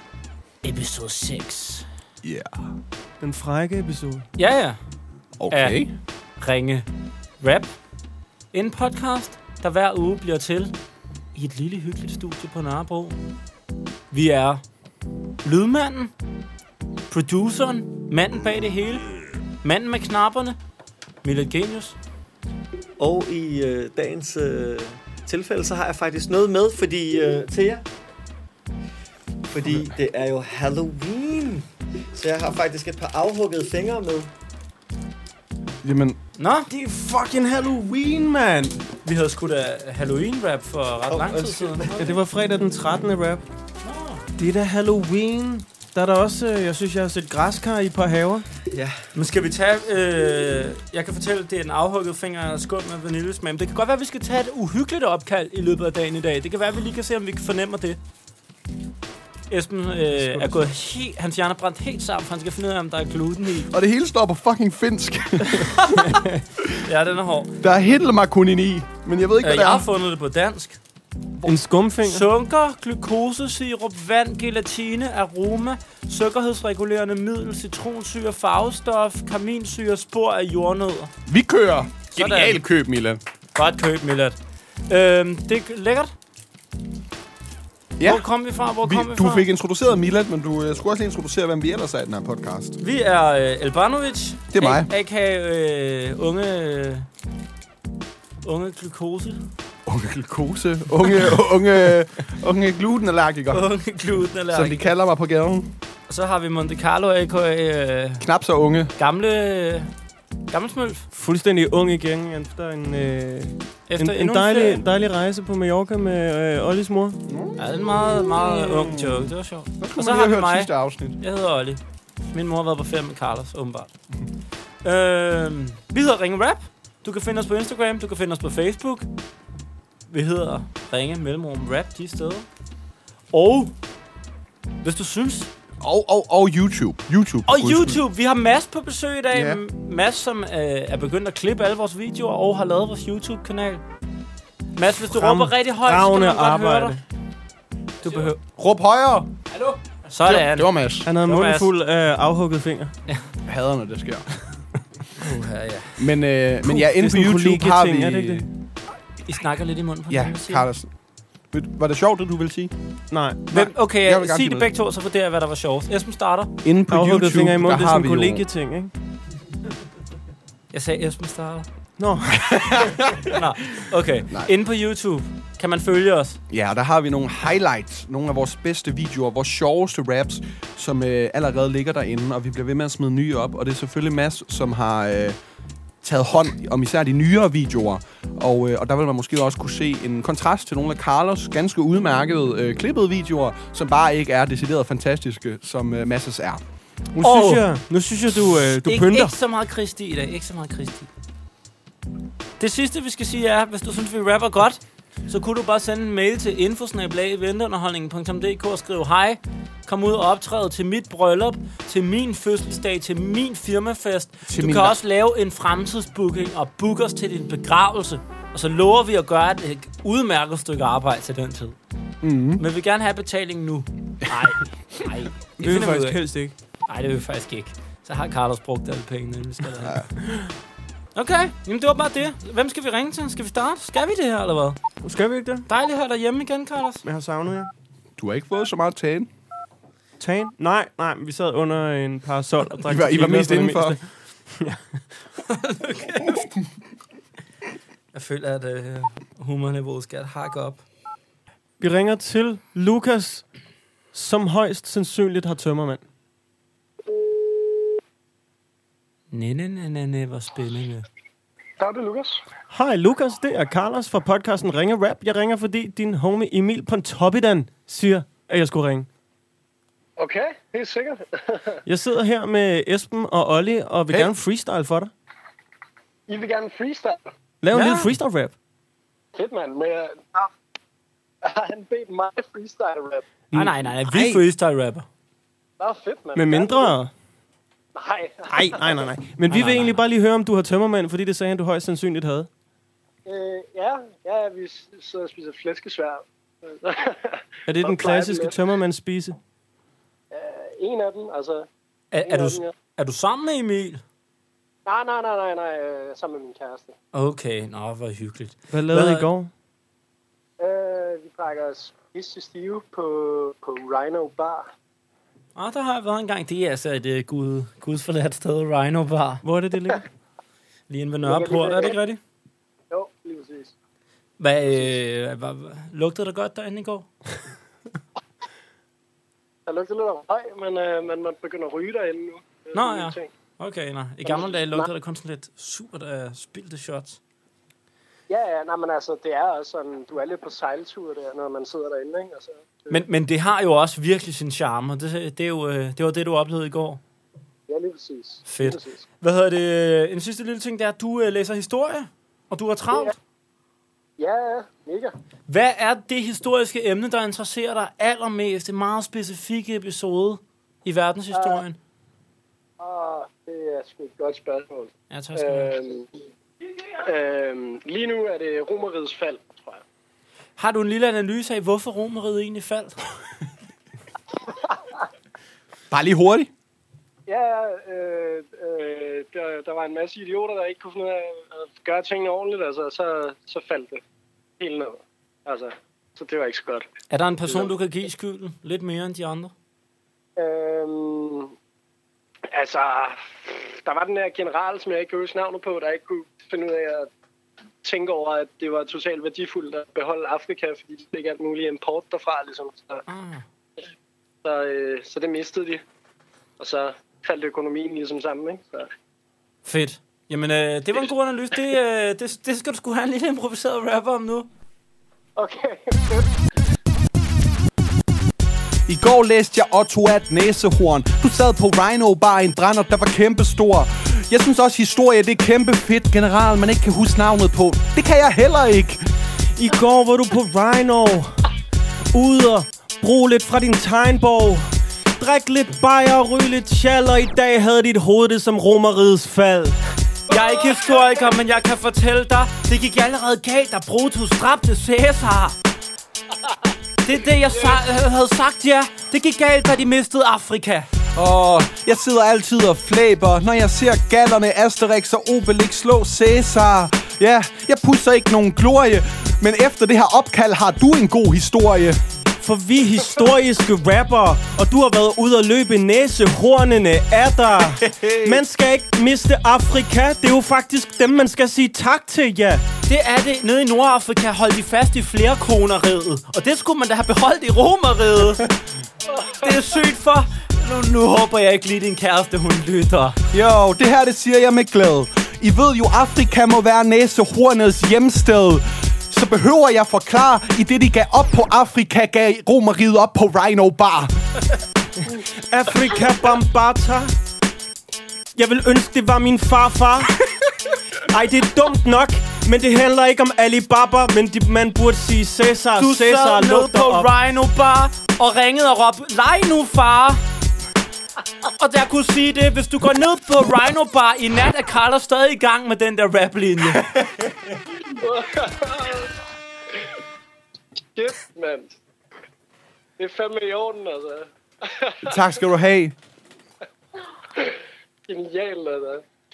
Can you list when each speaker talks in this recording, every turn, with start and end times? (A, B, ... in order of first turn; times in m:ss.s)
0:00.6-0:01.8 A
0:02.2-0:02.7 B
0:03.2-0:04.2 C
0:04.4-0:04.8 A
0:05.4-0:05.9 B
0:05.5-0:05.8 A
0:06.4-0:06.8 A
0:07.4-0:07.7 A
0:08.5-0:10.7 A
0:11.3-0:13.2 A
0:14.1-0:14.6 A
0:15.4-0:16.1 A
0:17.1-0:19.0 A
0:19.6-0:20.6 A
0:21.2-0:22.0 A
0:23.0-0:27.8 D
0:29.5-0:34.3 D
0:35.8-0:36.2 B
0:36.4-0:36.7 A
0:36.7-0:38.8 C
0:39.0-0:42.2 A
0:41.1-0:42.0 D
0:42.0-0:43.4 C
0:43.8-0:44.2 A
0:44.4-0:48.4 C
0:48.7-0:49.0 D
0:49.1-0:58.0 A
0:59.5-1:03.7 A
1:00.2-1:00.6 C
1:03.7-1:06.7 B
1:06.8-1:07.5 A
1:07.6-1:09.9 B
1:09.4-1:10.8 A
1:11.4-1:12.3 C
1:12.0-1:21.1 A
1:21.3-1:23.2 B
1:22.1-1:22.6 A
1:23.5-1:24.4 A
1:24.9-1:26.1 A
1:28.0-1:28.2 B
1:28.0-1:29.5 A
1:28.8-1:32.8 B
1:32.8-1:37.1 A
1:34.5-1:34.9 B
1:38.4-1:39.4 A
1:39.8-1:43.7 B
1:43.5-1:44.8 A
1:44.5-1:45.7 B
1:46.1-1:48.2 A
1:48.2-1:48.9 B
1:49.0-1:49.9 A
1:50.5-1:51.0 A
1:51.1-1:57.2 C
1:53.9-1:54.8 A
1:57.2-2:01.2 B
1:57.6-2:01.8 A
2:02.3-2:03.9 A
2:04.8-2:09.1 A
2:10.1-2:12.4 A
2:13.3-2:13.7 A
2:14.8-2:15.5 A
2:15.8-2:18.0 B
2:17.5-2:23.8 A
2:19.3-2:19.6 B
2:24.8-2:27.0 A
2:25.0-2:27.0 C
2:28.0-2:28.4 A
2:28.3-2:29.3 B
2:30.0-2:31.7 A
2:30.2-2:31.0 B
2:31.0-2:32.9 C
2:33.4-2:34.6 B
2:35.2-2:36.1 A
2:36.0-2:38.4 B
2:36.6-2:38.4 C
2:39.2-2:40.7 A
2:40.1-2:40.9 B
2:41.5-2:42.7 B
2:43.1-2:43.4 C
2:43.5-2:44.7 B
2:43.5-2:46.5 A
2:46.6-2:48.4 B
2:46.9-2:48.9 C
2:50.7-2:51.7 A
2:52.0-2:52.4 C
2:52.4-2:53.2 B
2:53.3-2:56.4 A
2:56.5-3:05.4 B
3:06.0-3:16.6 B
3:17.2-3:19.3 C
3:17.2-3:17.6 A
3:18.8-3:21.1 A
3:22.6-3:41.8 A
3:34.5-3:35.0 B
3:42.2-3:42.6 B
3:42.6-3:46.2 A
3:45.6-3:46.5 C
3:46.9-3:50.1 A
3:49.8-3:50.1 B
3:51.1-3:54.8 A
3:55.0-3:55.6 C
3:55.7-3:57.0 A
3:57.0-3:57.7 C
3:58.2-3:59.3 B
4:00.2-4:05.0 C
4:02.8-4:04.0 B
4:05.5-4:06.4 A
4:08.1-4:10.8 A
4:11.8-4:13.4 C
4:14.1-4:16.0 C
4:19.3-4:21.0 A
4:21.8-4:22.4 E
4:22.7-4:29.1 C
4:30.2-4:31.8 E
4:31.8-4:35.1 C
4:34.1-4:34.3 B
4:36.3-4:37.2 E
4:37.6-4:38.5 C
4:37.7-4:38.1 A
4:39.3-4:40.5 E
4:41.4-4:43.2 E
4:43.5-4:44.4 C
4:43.5-4:45.0 A
4:45.8-4:47.0 E
4:46.3-4:47.1 C
4:47.9-4:49.1 E
4:48.5-4:52.5 C
4:49.5-4:50.0 A
4:53.2-4:58.6 E
4:57.7-4:59.4 C
5:00.3-5:01.7 E
5:02.1-5:04.0 A
5:02.2-5:02.7 E
5:04.8-5:06.9 E
5:07.1-5:09.3 A
5:08.7-5:09.5 C
5:10.6-5:14.7 E
5:15.6-5:19.4 A
5:19.4-5:20.0 C
5:20.9-5:22.2 A
5:21.2-5:22.0 E
5:22.9-5:23.7 E
5:24.4-5:27.1 A
5:29.6-5:33.3 E
5:32.7-5:37.2 A
5:34.2-5:34.9 E
5:38.3-5:43.0 E
5:42.9-5:47.0 A
5:47.7-5:49.0 E
5:48.4-5:53.2 A
5:54.2-5:55.1 E
5:55.5-6:01.8 A
6:01.3-6:01.6 E
6:02.8-6:06.1 E
6:05.1-6:05.7 A
6:07.0-6:09.8 E
6:10.6-6:13.0 A
6:15.9-6:16.5 B
6:17.3-6:24.0 E
6:24.6-6:26.9 E
6:27.1-6:29.5 A
6:27.4-6:27.7 E
6:30.4-6:31.5 E
6:32.5-6:37.1 E
6:37.8-6:43.0 E
6:43.1-6:43.4 A
6:44.4-6:45.8 E
6:46.6-6:48.9 E
6:49.6-6:54.5 A
6:55.4-6:56.4 E
6:58.9-7:09.0 B
7:09.6-7:11.4 C
7:12.1-7:19.8 C
7:20.3-7:25.6 A
7:27.0-7:30.9 A
7:31.1-7:42.0 B
7:42.4-7:52.6 C
7:47.8-7:48.4 B
7:52.9-7:58.4 A
7:59.3-8:03.2 A
8:03.3-8:14.1 B
8:15.1-8:17.1 C
8:18.4-8:20.1 C
8:21.1-8:27.1 C
8:25.8-8:30.2 A
8:31.6-8:36.8 A
8:38.0-8:39.1 E
8:41.0-8:41.8 E
8:43.0-8:45.2 E
8:45.0-8:45.9 B
8:48.1-8:49.0 E